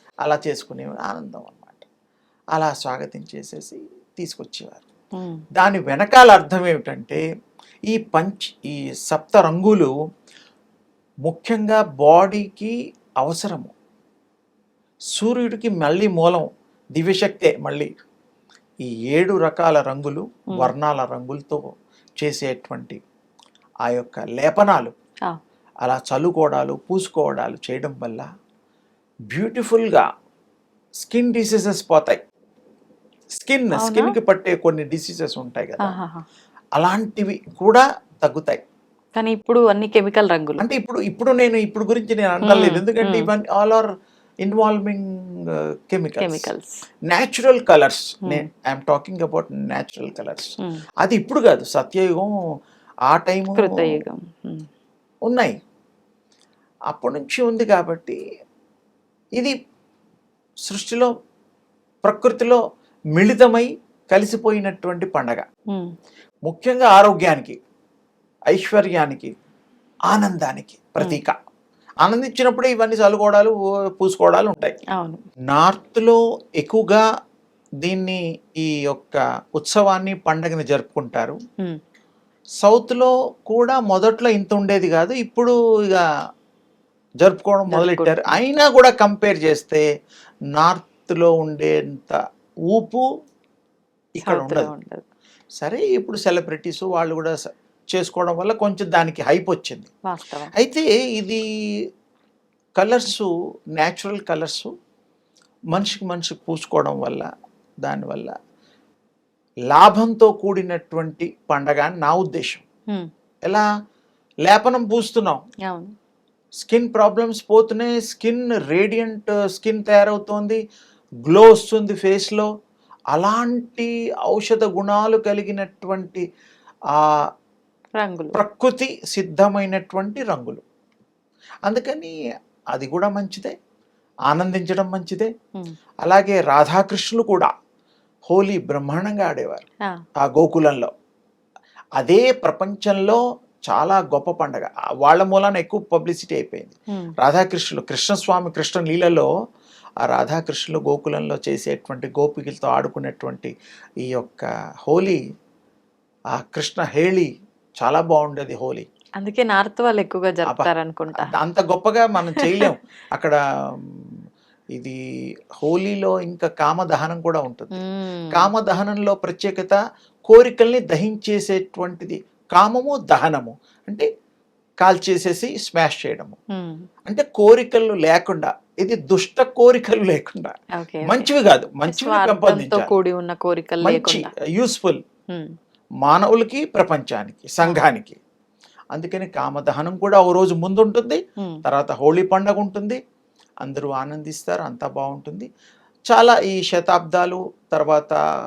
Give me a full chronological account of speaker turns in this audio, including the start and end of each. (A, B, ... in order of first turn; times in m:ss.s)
0:00.2-0:01.8 A
0:02.5-0:04.8 A
0:05.1-0:05.4 B
0:05.6-0:07.2 A
0:07.9-0:09.9 A
0:11.2-0:13.7 A
0:15.2-0:17.9 A
0:18.9-0:21.6 A
0:22.2-0:23.0 A
0:23.8-0:24.9 A
0:25.8-0:28.2 A
0:29.3-0:30.0 A
0:31.0-0:32.2 A
0:33.4-0:36.0 A
0:33.7-0:34.1 B
0:35.8-0:36.2 B
0:36.8-0:38.6 A
0:39.2-0:40.7 B
0:40.6-0:43.9 A
0:42.4-0:43.3 B
0:44.4-0:46.5 A
0:46.2-0:46.7 B
0:47.1-0:52.3 A
0:48.2-0:48.5 B
0:53.1-0:53.7 A
0:53.5-0:54.6 B
0:55.3-0:55.5 A
0:56.9-0:58.2 A
1:00.7-1:01.1 A
1:02.0-1:02.6 A
1:03.1-1:05.4 A
1:06.5-1:07.6 A
1:08.5-1:09.3 A
1:10.1-1:11.3 A
1:12.0-1:14.8 A
1:14.9-1:15.2 B
1:15.5-1:17.0 A
1:17.8-1:21.4 A
1:22.6-1:26.0 A
1:27.2-1:29.8 A
1:27.7-1:28.4 B
1:30.6-1:32.2 A
1:32.7-1:33.0 A
1:34.2-1:34.7 A
1:34.2-1:35.0 B
1:35.6-1:37.3 A
1:37.9-1:39.9 A
1:40.0-1:40.5 B
1:40.6-1:41.4 A
1:42.8-1:44.7 A
1:45.7-1:47.2 A
1:47.8-1:48.3 A
1:49.7-1:52.6 A
1:54.4-1:55.4 A
1:55.6-1:55.9 B
1:56.6-2:00.6 A
2:01.2-2:02.5 A
2:03.1-2:06.2 A
2:08.0-2:08.4 B
2:08.3-2:10.6 A
2:11.7-2:12.1 A
2:12.7-2:13.5 A
2:14.3-2:15.3 A
2:16.0-2:17.5 A
2:18.3-2:19.6 A
2:20.2-2:20.9 A
2:22.0-2:29.3 A
2:30.0-2:33.5 A
2:34.0-2:35.2 A
2:36.3-2:37.3 A
2:37.8-2:38.9 A
2:39.2-2:41.3 B
2:40.5-2:44.1 A
2:42.3-2:42.7 B
2:45.6-2:47.8 A
2:47.7-2:48.5 B
2:48.3-2:54.1 A
2:54.8-2:56.4 A
2:56.5-2:56.9 B
2:57.0-3:02.9 A
3:00.8-3:01.3 B
3:01.8-3:04.3 B
3:03.8-3:05.0 A
3:06.0-3:08.2 A
3:08.9-3:13.0 A
3:13.6-3:15.5 A
3:16.1-3:18.2 A